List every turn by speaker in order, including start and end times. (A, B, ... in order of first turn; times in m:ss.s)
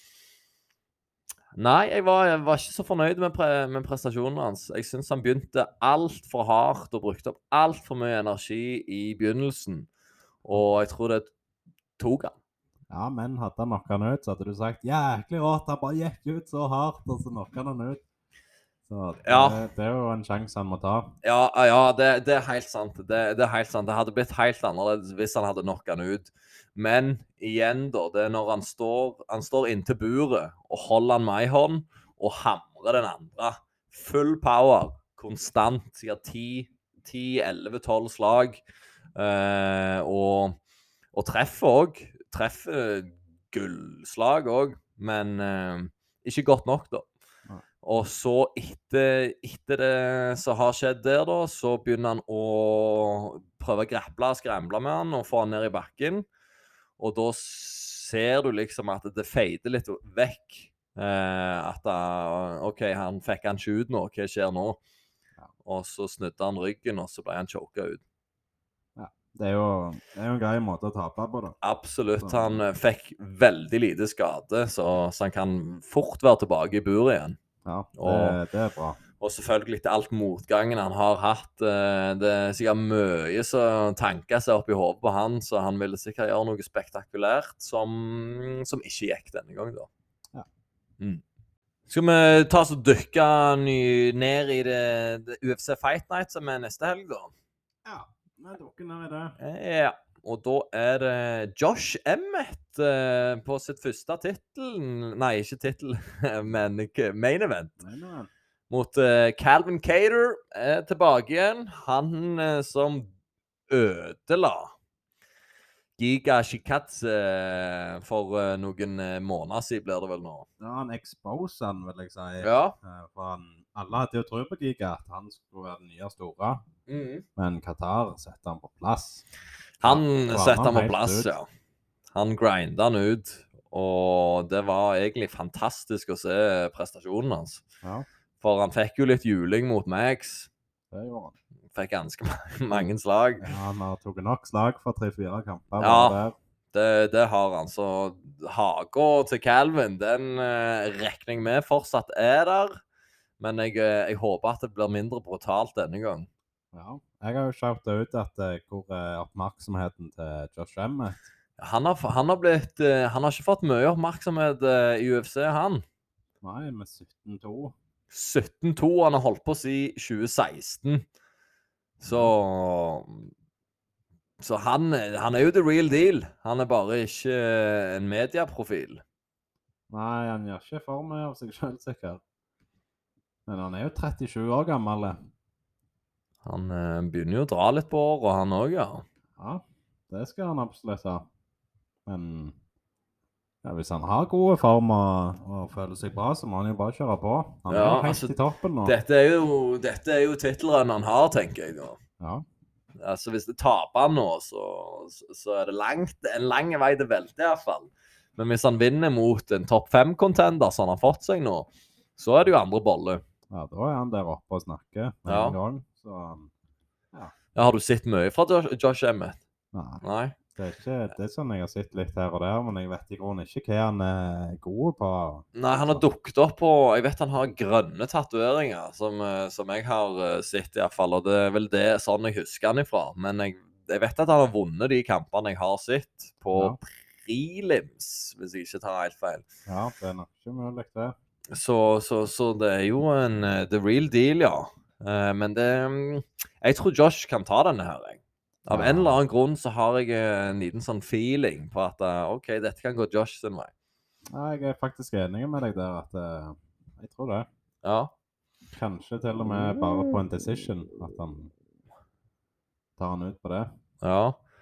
0:01.5-0:09.9 A
0:10.4-0:11.3 A
0:12.0-0:12.3 A
0:12.9-0:18.0 B
0:18.9-0:21.1 B
0:19.2-0:19.6 A
0:21.2-0:38.6 A
0:39.2-0:40.6 A
0:41.1-0:47.1 A
0:47.8-0:56.2 A
0:57.0-1:04.8 A
1:05.6-1:08.0 A
1:09.0-1:11.6 B
1:11.6-1:17.4 A
1:12.2-1:12.6 B
1:17.6-1:19.0 B
1:18.0-1:18.4 A
1:19.2-1:29.9 A
1:31.9-1:37.3 A
1:37.8-1:39.4 B
1:39.4-1:47.8 A
1:47.8-1:48.3 B
1:48.7-1:53.1 A
1:53.7-1:54.7 A
1:56.0-2:00.5 A
2:00.6-2:06.6 B
2:02.4-2:02.8 A
2:06.9-2:07.2 A
2:07.4-2:09.2 B
2:09.8-2:11.5 A
2:09.8-2:11.3 B
2:12.1-2:17.6 A
2:18.4-2:20.5 A
2:20.9-2:21.3 B
2:21.7-2:23.5 A
2:23.4-2:26.4 B
2:25.8-2:26.2 A
2:26.7-2:32.7 A
2:33.4-2:36.3 A
2:36.7-2:41.2 B
2:41.6-2:45.8 A
2:46.4-2:47.7 B
2:48.1-2:51.0 A
2:52.0-2:53.3 A
2:52.1-2:52.3 B
2:54.4-2:59.0 A
2:59.9-3:02.2 B
3:03.5-3:05.2 B
3:06.4-3:09.0 A
3:09.4-3:11.3 B
3:12.0-3:12.5 B
3:13.6-3:18.9 B
3:17.7-3:22.0 A
3:22.2-3:22.4 B
3:23.0-3:33.2 A
3:33.5-3:36.5 B
3:35.3-3:35.6 A
3:37.5-3:39.4 A
3:39.7-3:40.0 B
3:40.0-3:40.4 A
3:40.5-3:46.0 B
3:45.5-3:59.4 A
3:59.7-4:01.1 B
4:01.5-4:13.7 A
4:08.7-4:09.2 B
4:14.3-4:17.5 B
4:17.8-4:18.1 A
4:18.7-4:21.5 B
4:23.0-4:23.7 B
4:24.0-4:24.4 A